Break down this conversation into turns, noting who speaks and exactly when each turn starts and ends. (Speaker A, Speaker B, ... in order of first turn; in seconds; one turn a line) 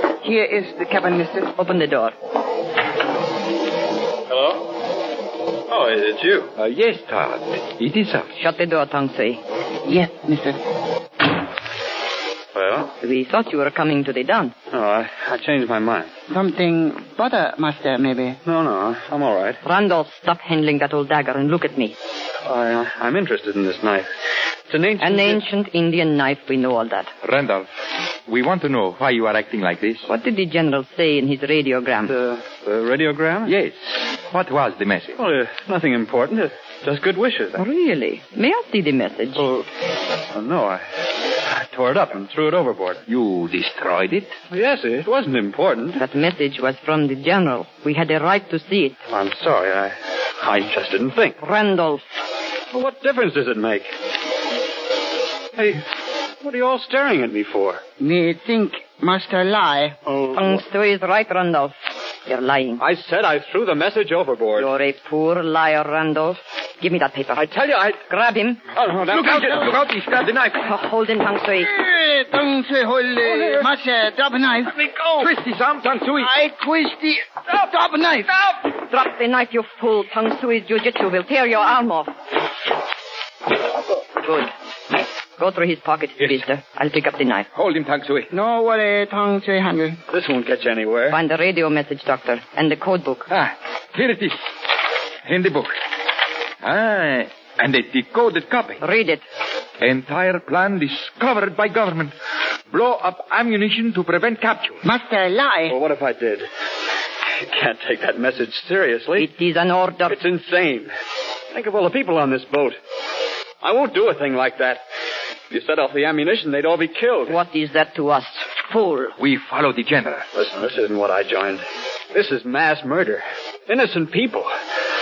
Speaker A: 0.2-1.5
Speaker B: 1.6-2.1
Speaker C: 4.3-4.6
Speaker C: 5.7-6.5
Speaker D: 6.6-8.3
Speaker B: 8.3-9.4
Speaker A: 9.8-10.6
Speaker C: 12.5-12.9
Speaker B: 13.0-14.5
Speaker C: 14.7-16.1
Speaker A: 16.3-18.4
Speaker C: 18.4-19.6
Speaker B: 19.6-21.9
Speaker C: 22.4-24.1
Speaker C: 24.7-25.4
Speaker B: 25.0-27.1
Speaker D: 27.2-27.7
Speaker D: 28.3-30.1
Speaker B: 30.1-32.1
Speaker C: 32.0-33.5
Speaker D: 33.4-35.2
Speaker C: 35.2-37.6
Speaker B: 37.5-39.5
Speaker C: 39.4-39.6
Speaker C: 40.3-40.8
Speaker C: 41.5-43.0
Speaker D: 43.1-44.3
Speaker C: 44.5-46.0
Speaker B: 46.0-49.0
Speaker C: 49.1-51.4
Speaker B: 51.4-52.0
Speaker C: 52.7-53.9
Speaker C: 55.5-55.8
Speaker C: 56.4-57.8
Speaker A: 58.0-60.0
Speaker C: 60.0-60.6
Speaker B: 60.3-61.7
Speaker B: 62.2-62.8
Speaker C: 62.8-64.7
Speaker B: 64.6-67.5
Speaker C: 67.3-68.0
Speaker B: 68.0-68.6
Speaker C: 68.7-69.7
Speaker D: 69.1-70.7
Speaker B: 70.6-71.7
Speaker A: 71.6-74.8
Speaker D: 75.2-76.3
Speaker A: 76.2-78.5
Speaker B: 78.8-82.1
Speaker B: 84.2-84.5
Speaker B: 85.4-87.5
Speaker D: 87.5-88.3
Speaker A: 88.3-90.0
Speaker C: 90.1-91.2
Speaker B: 91.1-93.3
Speaker D: 93.3-94.4
Speaker D: 95.2-95.7
Speaker D: 96.6-98.8
Speaker B: 98.8-99.2
Speaker D: 99.8-102.1
Speaker D: 102.7-104.8
Speaker A: 104.8-105.8
Speaker C: 105.7-106.5
Speaker C: 107.5-109.3
Speaker B: 109.2-110.2
Speaker C: 110.1-110.9
Speaker C: 111.5-112.8
Speaker C: 113.6-114.8
Speaker C: 115.5-117.4
Speaker B: 117.3-119.1
Speaker D: 119.2-120.3
Speaker C: 120.3-124.5